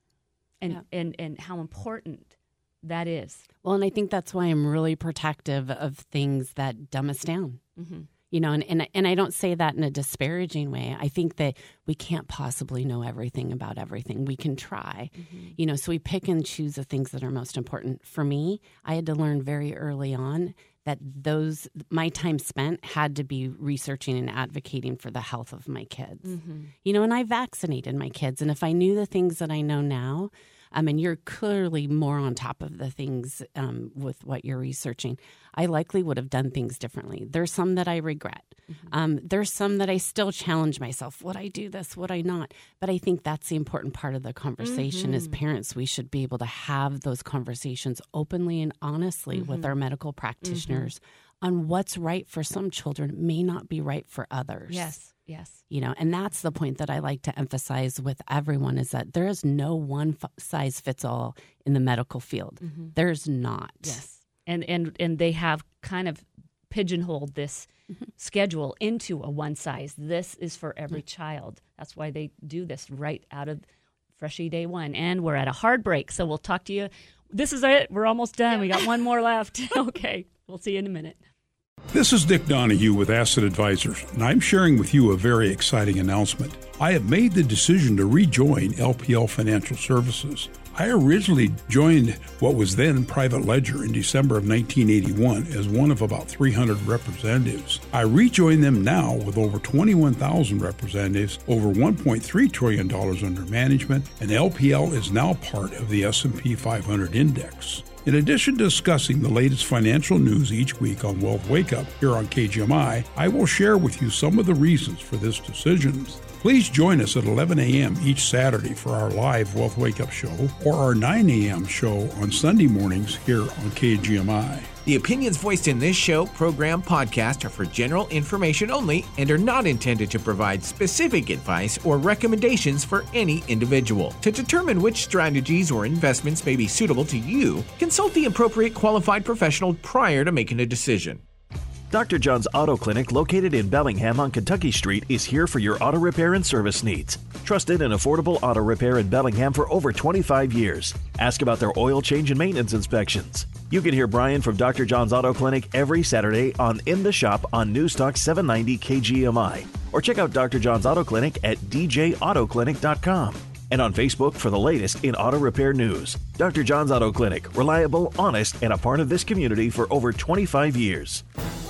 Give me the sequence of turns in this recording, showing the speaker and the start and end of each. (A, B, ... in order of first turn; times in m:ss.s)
0:00.6-0:03.4 A
0:03.6-0:07.6 B
0:07.8-0:08.1 A
0:08.3-0:54.9 B
0:15.2-0:15.5 A
0:26.2-0:26.7 A
0:44.6-0:45.4 A
0:49.3-0:49.7 A
0:50.4-0:50.9 A
0:54.7-0:55.6 A
0:55.7-1:04.1 B
1:02.6-1:02.9 A
1:03.8-1:13.6 A
1:14.2-1:21.2 A
1:21.9-2:04.7 C
2:04.8-2:21.2 D
2:21.9-2:51.2 E